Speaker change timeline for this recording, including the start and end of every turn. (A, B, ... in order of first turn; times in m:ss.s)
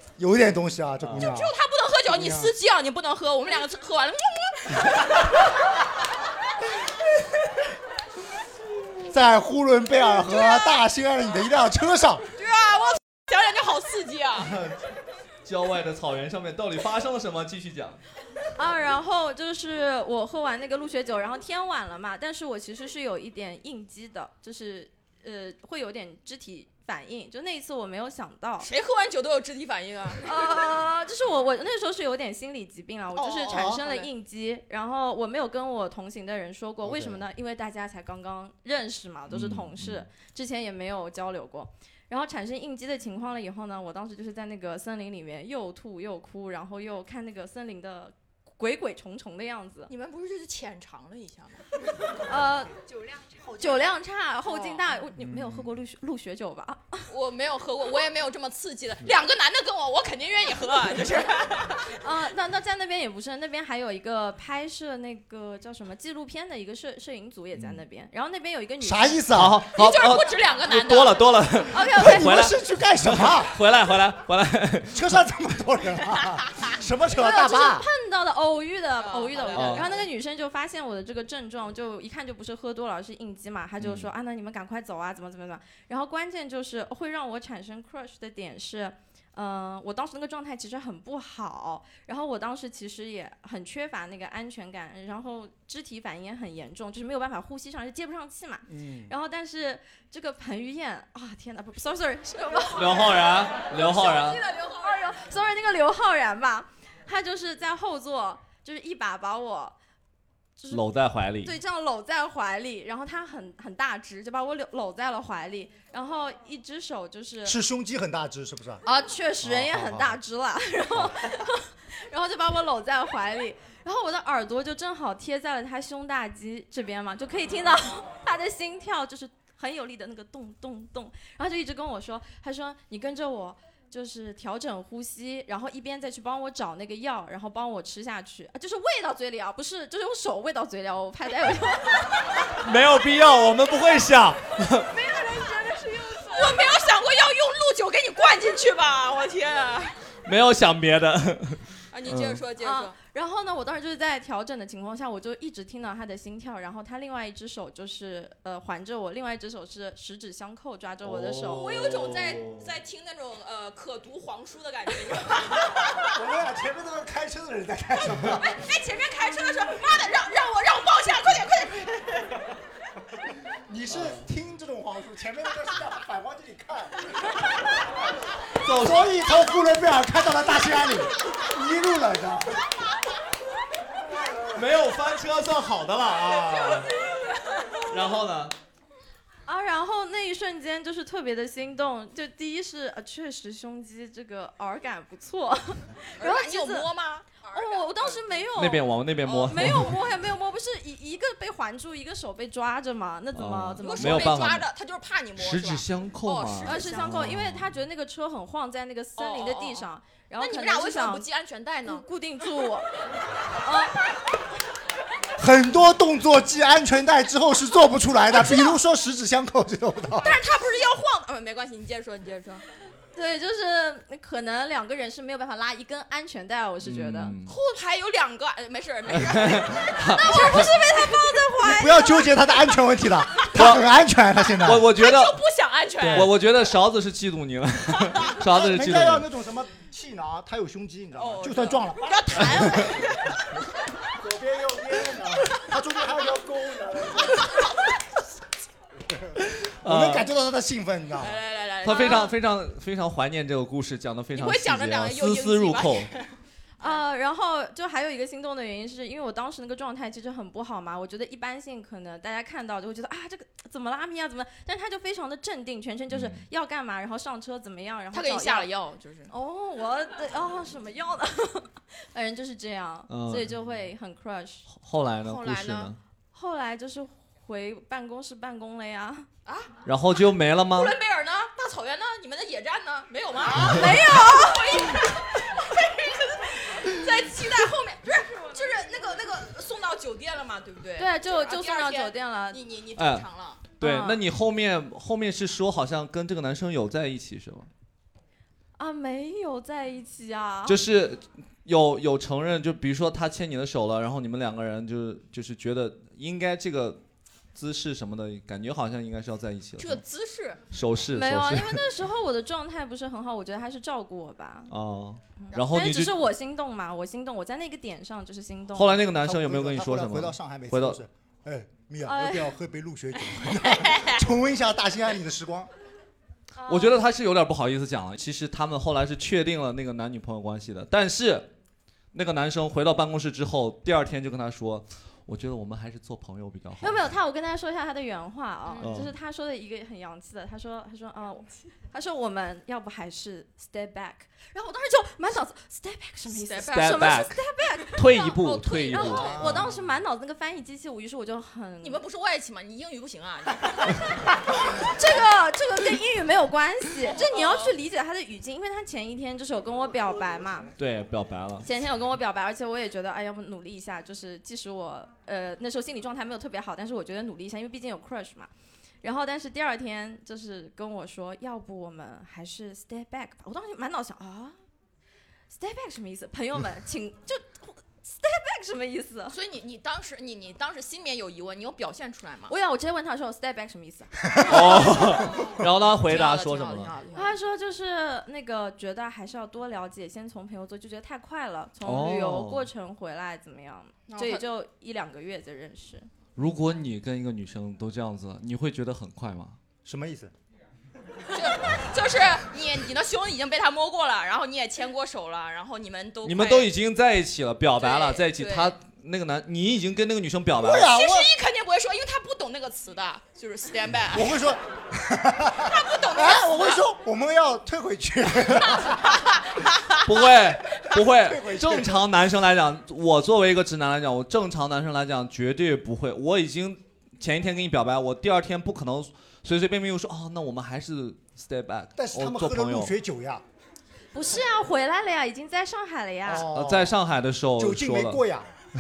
0:00.2-0:01.5 A
0:01.0-0:01.3 B
0:01.2-0:05.2 C
0:02.1-0:02.5 A
0:09.1-0:12.2 A
0:12.4-0:14.6 C
0:14.4-0:14.8 B
0:15.4-0:18.0 B
0:18.6-0:28.7 D
0:28.6-0:30.5 C
0:30.2-0:49.9 D
0:33.2-0:34.1 C
0:36.8-0:37.2 A
0:39.3-0:40.1 B
0:49.9-0:51.7 C
0:52.2-0:52.7 D
0:53.0-0:53.8 C
0:53.6-0:57.1 D
0:54.5-0:55.0 C
0:57.1-1:01.9 C
1:01.9-1:09.2 D
1:08.8-1:09.6 A
1:09.3-1:15.1 B
1:09.7-1:11.3 C
1:11.7-1:12.5 D
1:11.9-1:13.6 A
1:14.9-1:17.9 A
1:17.1-1:43.2 D
1:19.0-1:20.0 C
1:19.5-1:19.9 B
1:23.8-1:24.1 B
1:38.7-1:39.1 A
1:42.8-1:44.4 B
1:43.8-1:44.8 C
1:44.6-1:49.8 D
1:50.6-1:50.8 D
1:50.7-1:51.6 B
1:51.4-1:57.6 D
1:57.4-1:58.8 A
1:58.9-2:22.2 D
1:59.4-2:00.2 A
2:22.6-2:24.9 B
2:24.9-2:26.6 D
2:26.2-2:30.0 C
2:30.2-2:32.4 B
2:31.9-2:33.0 C
2:32.6-2:41.8 D
2:41.0-2:42.6 B
2:41.6-2:46.1 C
2:46.1-2:48.6 A
2:48.5-2:52.4 C
2:53.7-2:57.4 A
2:58.6-2:59.1 B
2:58.7-3:02.7 A
3:04.1-3:04.6 A
3:04.5-3:07.0 B
3:07.8-3:08.6 B
3:09.5-3:16.9 D
3:16.2-3:18.2 C
3:17.5-3:24.6 D
3:18.6-3:20.0 B
3:19.2-3:19.8 C
3:23.3-3:24.7 B
3:23.8-3:27.3 C
3:25.4-3:27.7 B
3:26.6-3:31.3 D
3:29.2-3:29.9 C
3:30.4-3:32.1 C
3:31.8-3:32.9 D
3:33.5-3:34.0 D
3:35.4-3:40.4 A
3:40.2-3:42.6 C
3:43.1-3:47.3 D
3:46.8-3:47.5 B
3:47.4-3:50.8 C
3:49.1-3:50.7 B
3:50.1-3:52.4 D
3:51.6-3:54.9 A
3:53.5-3:53.8 B
3:54.6-3:55.4 B
3:54.9-3:56.3 C
3:56.0-3:56.3 A
3:56.1-3:59.3 B
3:58.4-4:03.2 A
4:01.2-4:03.3 C
4:04.1-4:07.7 A
4:09.1-4:11.4 A
4:09.6-4:10.3 B
4:11.2-4:12.4 C
4:11.8-4:16.1 B
4:11.9-4:12.3 D
4:14.4-4:17.0 C
4:16.8-4:28.7 D
4:26.1-4:26.4 B
4:28.1-4:29.3 C
4:29.3-4:34.7 D
4:33.1-4:33.6 B
4:34.7-4:36.0 B
4:35.2-4:35.9 C
4:36.3-4:39.3 D
4:39.4-4:39.7 C
4:39.9-4:41.0 B
4:40.7-4:53.6 C
4:43.6-4:45.0 D
4:51.0-4:52.6 D
4:53.0-4:57.7 B
4:53.8-4:54.2 D
4:58.8-5:00.8 D
5:00.7-5:07.0 B
5:07.6-5:10.0 B
5:09.8-5:10.6 C
5:10.7-5:11.8 B
5:11.1-5:14.7 D
5:14.7-5:16.2 B
5:15.4-5:19.0 D
5:18.7-5:21.0 B
5:19.2-5:25.7 A
5:22.0-5:22.6 D
5:23.6-5:24.2 C
5:26.6-5:27.0 D
5:26.7-5:31.5 B
5:32.1-5:37.1 B
5:36.8-5:52.0 D
5:38.7-5:38.9 C
5:38.8-5:39.1 B
5:46.3-5:47.3 C
5:46.7-5:47.4 B
5:47.9-5:49.6 B
5:48.6-5:49.4 C
5:49.2-5:49.7 A
5:51.8-5:54.0 C
5:54.7-6:00.7 D
5:57.1-5:57.8 C
6:00.8-6:01.7 B
6:01.6-6:08.5 D
6:09.0-6:14.6 D
6:15.5-6:19.4 D
6:19.3-6:22.5 C
6:22.5-6:25.0 D
6:24.5-6:26.9 B
6:26.0-6:27.4 C
6:27.1-6:36.1 D
6:31.8-6:32.7 B
6:34.1-6:34.4 C
6:36.4-6:39.6 B
6:39.8-6:40.3 A
6:41.3-6:46.7 C
6:46.2-6:50.9 B
6:47.8-6:48.8 C
6:50.6-6:51.3 A
6:50.8-6:54.4 C
6:54.1-6:59.2 A
6:55.6-6:56.8 C
7:00.0-7:12.9 B
7:01.0-7:02.1 A
7:12.0-7:13.4 A
7:14.1-7:16.5 D
7:16.2-7:17.0 A
7:16.5-7:18.2 B
7:17.6-7:18.5 A